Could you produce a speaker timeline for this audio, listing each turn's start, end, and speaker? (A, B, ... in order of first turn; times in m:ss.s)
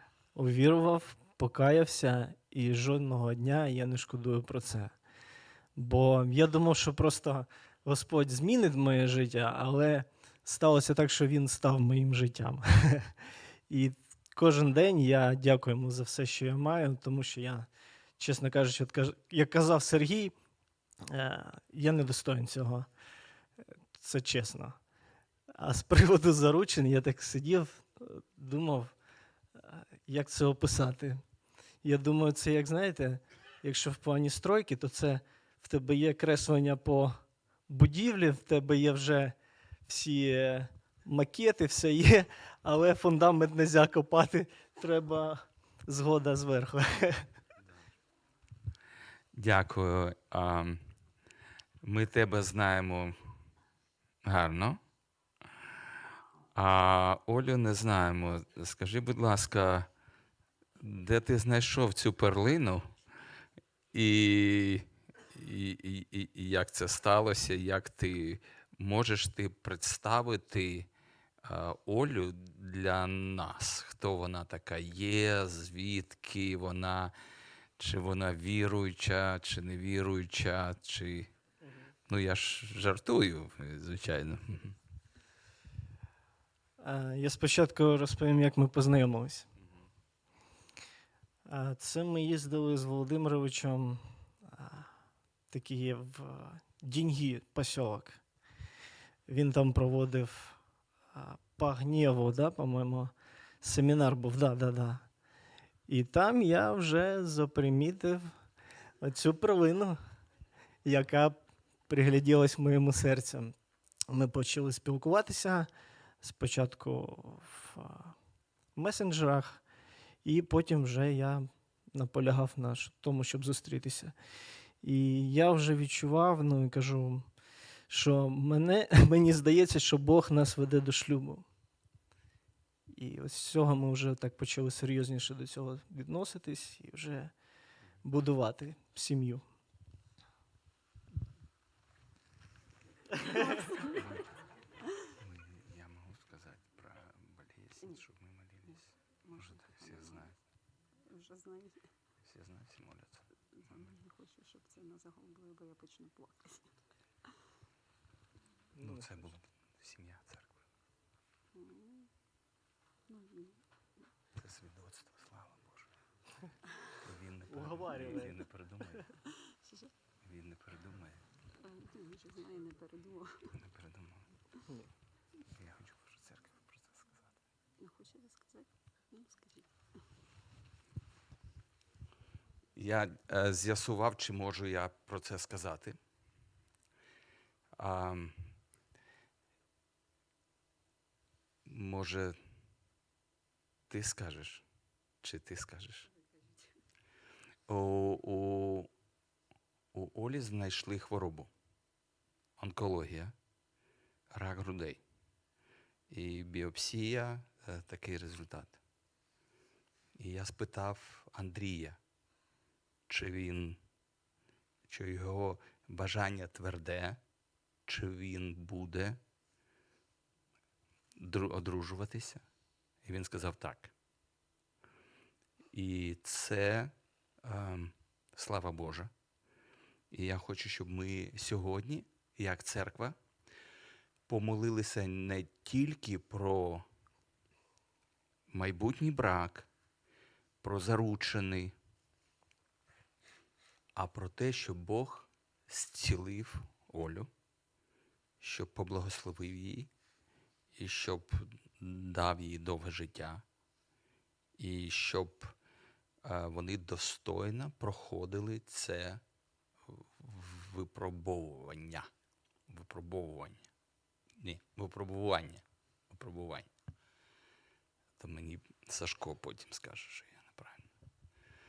0:00.3-0:04.9 A
0:05.8-0:13.1 A
0:13.7-0:17.7 A
0:18.2-0:20.3 A
0:21.1-0:22.9 A
0:23.9-0:24.8 A
0:25.5-0:28.9 A
0:29.6-0:31.2 A
0:31.8-0:37.1 A
0:37.7-0:39.4 A
0:39.9-0:47.3 A
0:49.3-0:50.8 B
0:51.8-0:53.2 B
0:54.2-0:54.8 B
0:56.5-0:59.9 B
1:00.8-1:02.9 B
1:03.9-1:10.9 B
1:11.4-1:17.1 B
1:17.8-1:21.3 B
1:22.1-1:24.8 B
1:26.8-1:29.5 A
1:31.5-1:34.9 A
1:35.5-1:38.2 A
1:39.3-1:40.6 A
1:41.1-1:45.0 A
1:45.9-1:48.3 A
1:49.0-1:50.0 A
1:50.8-1:51.4 A
1:51.9-1:53.5 A
1:54.1-1:55.7 A
1:56.2-1:58.1 A
1:58.8-1:59.6 A
2:00.2-2:04.1 A
2:04.8-2:07.3 A
2:07.9-2:11.4 A
2:12.9-2:17.3 A
2:18.0-2:19.4 A
2:23.3-2:23.9 C
2:25.0-2:30.3 B
2:29.2-2:30.3 C
2:31.1-2:31.9 C
2:32.2-2:33.9 B
2:33.6-2:36.7 C
2:38.7-2:39.1 A
2:38.8-2:40.5 B
2:41.5-2:42.1 C
2:43.1-2:43.6 C
2:44.4-2:45.9 B
2:46.9-2:49.1 B
2:47.5-2:48.3 A
2:49.4-2:49.9 C
2:50.2-2:51.2 B
2:51.6-2:53.5 C
2:53.5-2:54.3 B
2:55.5-2:57.2 B
2:57.8-2:59.7 C
3:02.8-3:06.0 B
3:07.8-3:08.4 B
3:11.7-3:12.4 B
3:13.9-3:14.6 B
3:15.2-3:16.1 B
3:17.7-3:18.9 B
3:19.9-3:21.5 B
3:22.6-3:23.3 B
3:24.3-3:25.0 B
3:26.1-3:28.8 B
3:30.2-3:32.0 B
3:33.1-3:33.8 B
3:34.9-3:37.2 B
3:37.9-3:39.2 B
3:41.2-3:42.4 B
3:43.0-3:43.9 B
3:45.7-3:49.1 B
3:50.1-3:53.2 B
3:54.3-3:56.8 B
3:58.5-3:59.7 B
4:00.6-4:01.7 B
4:04.0-4:07.3 B
4:08.4-4:09.9 B
4:10.8-4:13.4 B
4:14.6-4:15.5 B
4:16.2-4:19.2 B
4:19.9-4:22.1 B
4:22.7-4:23.7 B
4:24.4-4:26.7 B
4:28.2-4:30.9 B